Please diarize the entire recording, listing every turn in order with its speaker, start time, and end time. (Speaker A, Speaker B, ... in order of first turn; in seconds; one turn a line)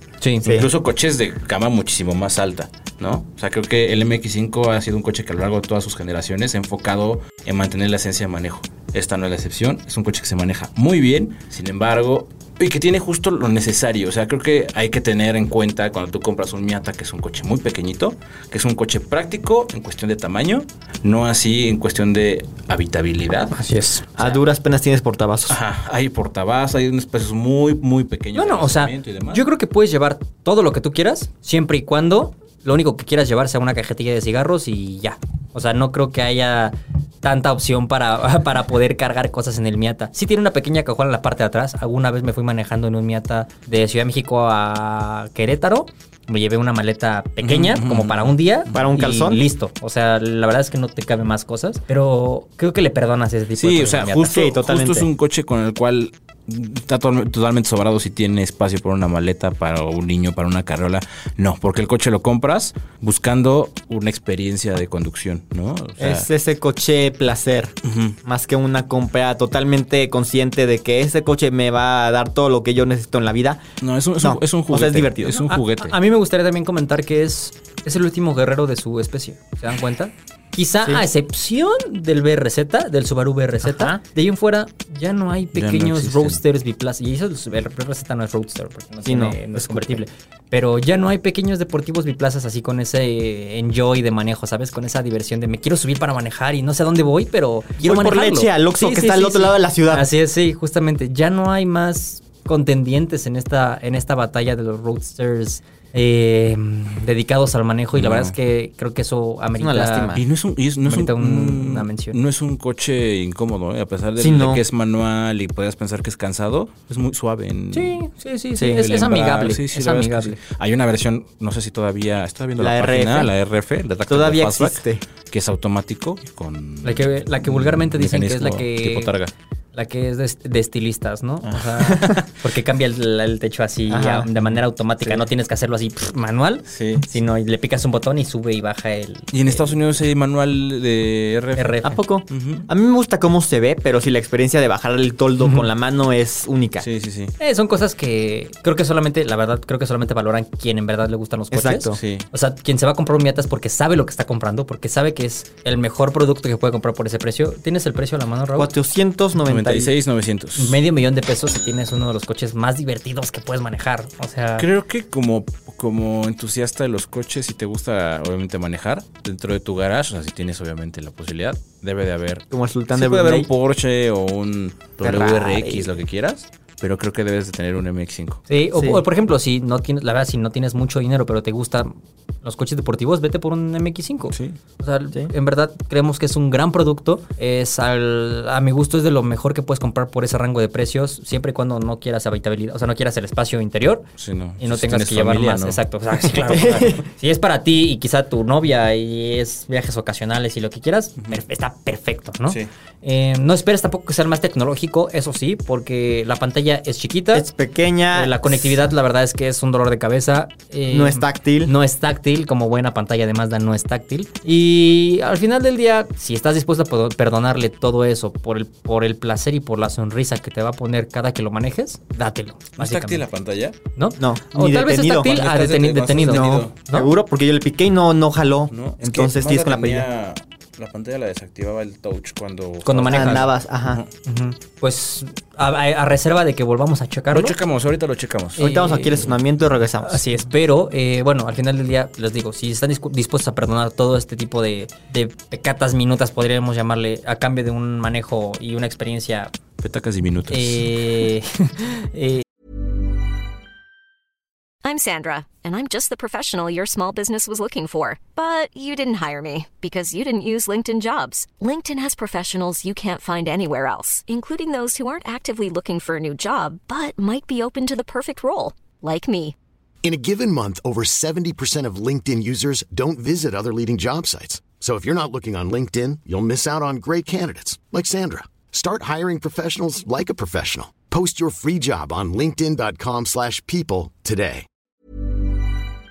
Speaker A: 0.2-0.6
Speaker B: 0.4-23.6
Speaker A: 23.5-24.4
Speaker C: 24.2-25.6
Speaker B: 25.5-29.4
Speaker A: 28.4-54.4
Speaker B: 47.4-48.8
Speaker C: 48.7-49.4
Speaker B: 53.6-66.3
Speaker C: 54.2-55.1
Speaker C: 66.0-73.6
Speaker B: 67.8-68.2
Speaker B: 73.8-76.0
Speaker C: 74.2-75.4
Speaker A: 75.3-110.2
Speaker C: 83.6-84.0
Speaker B: 85.5-86.4
Speaker C: 89.0-90.0
Speaker C: 97.8-100.1
Speaker B: 107.9-108.4
Speaker C: 109.6-110.2
Speaker B: 110.1-118.0
Speaker A: 110.8-112.2
Speaker C: 114.2-114.6
Speaker A: 117.7-120.4
Speaker B: 118.6-129.3
Speaker C: 122.6-123.3
Speaker C: 124.1-125.0
Speaker A: 126.8-129.1
Speaker A: 129.7-139.7
Speaker B: 131.4-132.3
Speaker C: 133.9-134.3
Speaker B: 136.7-137.1
Speaker B: 139.3-142.7
Speaker A: 141.6-142.0
Speaker C: 141.8-146.9
Speaker A: 145.4-145.7
Speaker B: 146.8-147.3
Speaker A: 147.4-158.7
Speaker C: 151.5-152.0
Speaker B: 151.9-152.3
Speaker C: 158.6-159.9
Speaker B: 159.4-160.8
Speaker A: 160.6-164.7
Speaker B: 164.6-178.4
Speaker C: 172.5-173.5
Speaker C: 175.0-175.9
Speaker A: 178.5-194.1
Speaker C: 178.7-179.0
Speaker B: 184.3-184.6
Speaker B: 194.2-196.6
Speaker A: 194.6-207.5
Speaker C: 196.5-197.0
Speaker C: 207.3-208.8
Speaker A: 208.1-223.2
Speaker C: 210.9-211.7
Speaker B: 222.8-223.8
Speaker A: 223.9-227.1
Speaker C: 224.2-225.3
Speaker B: 225.1-226.7
Speaker C: 226.2-230.1
Speaker B: 228.7-234.1
Speaker A: 232.8-233.5
Speaker C: 233.1-234.0
Speaker A: 234.2-237.6
Speaker B: 237.3-238.6
Speaker A: 238.6-239.3
Speaker C: 238.6-240.2
Speaker A: 240.0-249.5
Speaker B: 249.8-251.2
Speaker A: 250.5-252.4
Speaker D: 254.8-269.6
Speaker E: 270.0-284.6